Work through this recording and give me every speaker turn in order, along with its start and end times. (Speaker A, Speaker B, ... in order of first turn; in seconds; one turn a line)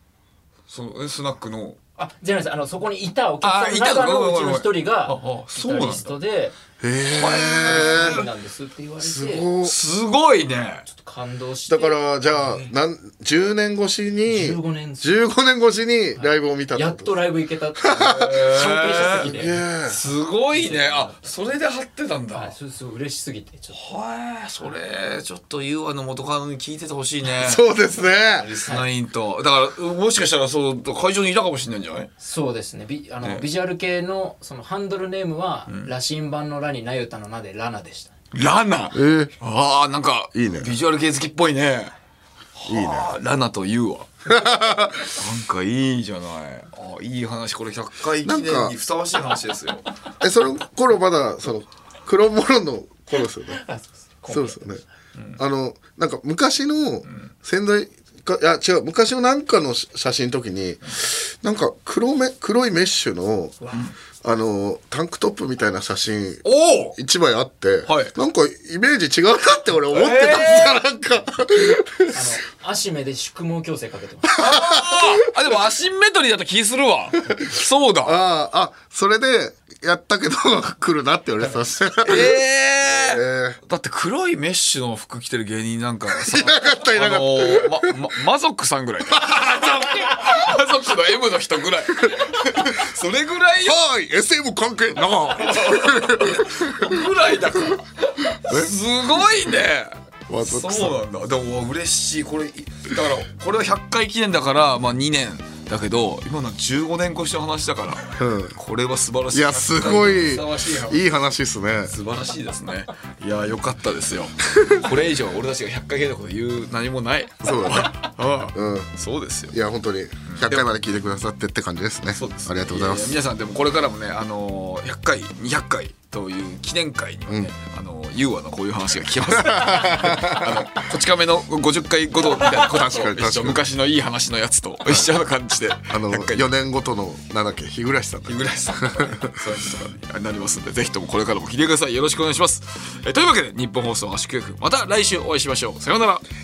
Speaker A: 0.7-1.8
Speaker B: 2.0-6.6
Speaker A: 3.4-6.2
Speaker C: 6.8-8.2
Speaker A: 7.0-8.3
Speaker B: 7.7-9.5
Speaker C: 9.0-9.8
Speaker A: 9.6-10.8
Speaker B: 10.9-12.6
Speaker C: 11.7-17.1
Speaker B: 14.3-15.2
Speaker B: 16.2-19.6
Speaker C: 17.8-20.0
Speaker A: 17.9-19.3
Speaker A: 19.9-22.6
Speaker B: 20.5-21.3
Speaker B: 22.3-23.8
Speaker A: 23.7-27.6
Speaker C: 27.4-28.5
Speaker B: 28.4-28.9
Speaker A: 28.4-32.1
Speaker B: 32.2-38.1
Speaker A: 33.2-33.5
Speaker A: 38.3-41.9
Speaker C: 38.9-39.3
Speaker C: 40.3-40.7
Speaker A: 42.6-44.1
Speaker C: 42.7-43.2
Speaker C: 44.3-45.1
Speaker A: 45.1-49.9
Speaker C: 48.2-48.8
Speaker C: 50.2-53.6
Speaker B: 53.5-54.8
Speaker C: 54.3-54.8
Speaker C: 55.4-63.5
Speaker B: 63.6-63.9
Speaker C: 64.2-72.2
Speaker A: 66.4-67.0
Speaker A: 67.9-68.1
Speaker A: 69.9-70.8
Speaker B: 72.1-74.4
Speaker A: 74.4-78.2
Speaker C: 74.4-75.0
Speaker C: 78.0-83.6
Speaker A: 82.0-93.8
Speaker C: 86.1-87.9
Speaker C: 89.2-89.6
Speaker C: 93.7-97.0
Speaker A: 95.4-97.9
Speaker A: 98.4-111.0
Speaker C: 98.4-98.7
Speaker C: 100.3-101.0
Speaker C: 108.2-108.6
Speaker C: 109.3-111.9
Speaker A: 111.9-119.5
Speaker C: 117.4-117.9
Speaker C: 118.5-118.9
Speaker C: 119.5-123.2
Speaker A: 120.3-120.7
Speaker A: 122.1-136.5
Speaker C: 129.3-130.7
Speaker C: 132.3-133.6
Speaker C: 135.8-139.3
Speaker A: 138.3-146.2